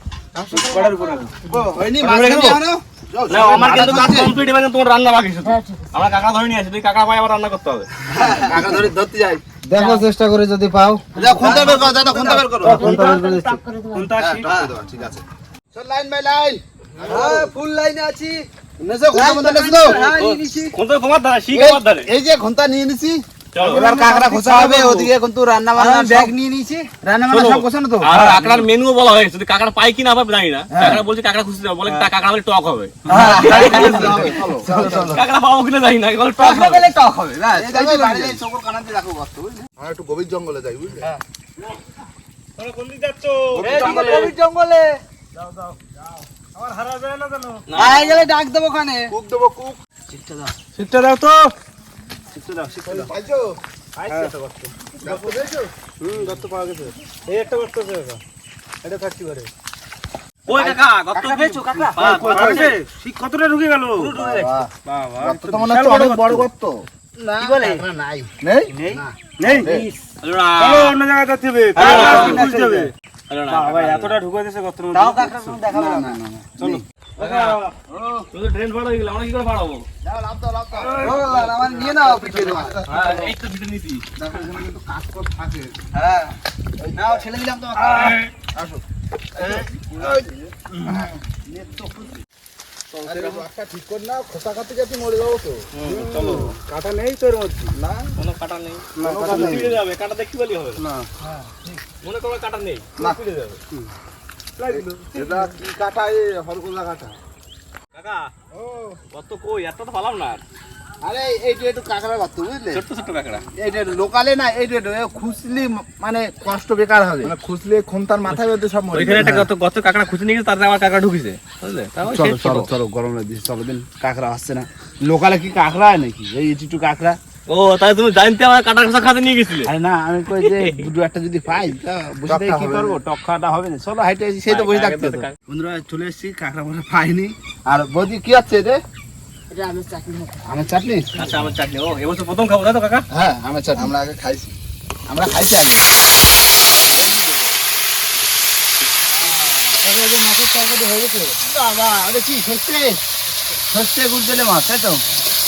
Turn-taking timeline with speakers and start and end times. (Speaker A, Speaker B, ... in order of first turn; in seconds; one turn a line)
Speaker A: 0.4-1.2
Speaker B: 0.5-1.3
Speaker C: 1.5-4.3
Speaker D: 2.0-2.6
Speaker D: 3.3-7.9
Speaker A: 5.4-6.1
Speaker E: 8.1-8.8
Speaker C: 8.1-9.4
Speaker E: 9.7-13.6
Speaker A: 9.7-10.1
Speaker C: 11.1-13.0
Speaker A: 11.1-14.2
Speaker D: 13.9-14.5
Speaker B: 14.0-14.4
Speaker C: 14.2-17.5
Speaker E: 14.4-14.7
Speaker E: 17.1-18.4
Speaker C: 18.8-20.0
Speaker E: 19.1-20.7
Speaker D: 19.9-22.1
Speaker C: 21.5-26.3
Speaker D: 23.5-23.8
Speaker F: 23.8-24.4
Speaker E: 24.3-25.1
Speaker E: 25.7-26.9
Speaker C: 27.0-28.6
Speaker D: 27.3-34.3
Speaker C: 30.7-31.0
Speaker E: 33.1-35.2
Speaker F: 33.1-35.0
Speaker C: 33.1-35.2
Speaker D: 35.1-36.9
Speaker E: 36.4-38.4
Speaker C: 37.5-39.7
Speaker F: 39.8-41.0
Speaker B: 42.6-44.3
Speaker D: 43.5-44.0
Speaker F: 43.6-44.3
Speaker E: 43.6-45.0
Speaker F: 45.4-45.9
Speaker B: 46.5-47.7
Speaker D: 47.7-48.1
Speaker E: 47.7-49.1
Speaker F: 49.1-49.8
Speaker C: 50.1-50.5
Speaker B: 50.7-51.5
Speaker C: 52.3-53.1
Speaker F: 52.8-53.6
Speaker B: 54.1-54.3
Speaker F: 55.0-55.6
Speaker B: 56.0-58.2
Speaker B: 58.8-59.5
Speaker D: 60.5-62.7
Speaker B: 61.1-66.5
Speaker E: 61.1-62.6
Speaker C: 62.0-62.7
Speaker E: 64.0-64.5
Speaker C: 64.2-64.6
Speaker F: 65.2-66.8
Speaker C: 65.3-65.7
Speaker C: 67.2-68.3
Speaker E: 67.4-67.8
Speaker F: 68.4-68.7
Speaker E: 68.7-69.6
Speaker C: 68.9-69.2
Speaker B: 69.4-69.9
Speaker D: 70.2-71.0
Speaker B: 70.5-72.9
Speaker D: 71.8-72.5
Speaker E: 71.8-72.9
Speaker D: 73.3-74.2
Speaker B: 73.5-75.6
Speaker E: 74.9-76.8
Speaker C: 75.7-76.8
Speaker B: 76.7-77.7
Speaker D: 77.2-77.6
Speaker C: 77.9-78.3
Speaker D: 78.3-79.8
Speaker C: 80.0-82.8
Speaker E: 81.0-82.8
Speaker F: 81.3-83.3
Speaker D: 82.9-84.0
Speaker F: 84.2-85.7
Speaker E: 86.0-86.3
Speaker E: 86.9-88.2
Speaker F: 88.0-88.7
Speaker C: 89.3-90.5
Speaker F: 90.0-90.3
Speaker C: 91.4-92.2
Speaker F: 93.0-96.5
Speaker D: 95.7-96.5
Speaker E: 97.1-97.7
Speaker F: 97.7-98.1
Speaker D: 98.2-100.8
Speaker F: 99.0-99.8
Speaker D: 102.0-103.6
Speaker B: 104.6-105.4
Speaker F: 104.7-107.2
Speaker D: 107.9-108.3
Speaker F: 108.5-109.0
Speaker D: 109.1-110.4
Speaker C: 111.0-112.8
Speaker D: 112.7-113.4
Speaker C: 113.6-117.3
Speaker F: 117.2-119.5
Speaker D: 118.9-122.7
Speaker C: 122.0-127.2
Speaker D: 127.5-129.7
Speaker C: 129.7-138.8
Speaker D: 130.4-130.8
Speaker F: 132.3-132.9
Speaker D: 134.5-135.3
Speaker A: 139.5-141.5
Speaker C: 140.4-141.1
Speaker D: 141.2-143.0
Speaker C: 143.1-143.9
Speaker F: 143.7-144.5
Speaker C: 145.1-145.9
Speaker F: 146.7-147.5
Speaker E: 149.7-151.3
Speaker C: 151.4-153.0
Speaker C: 153.7-155.0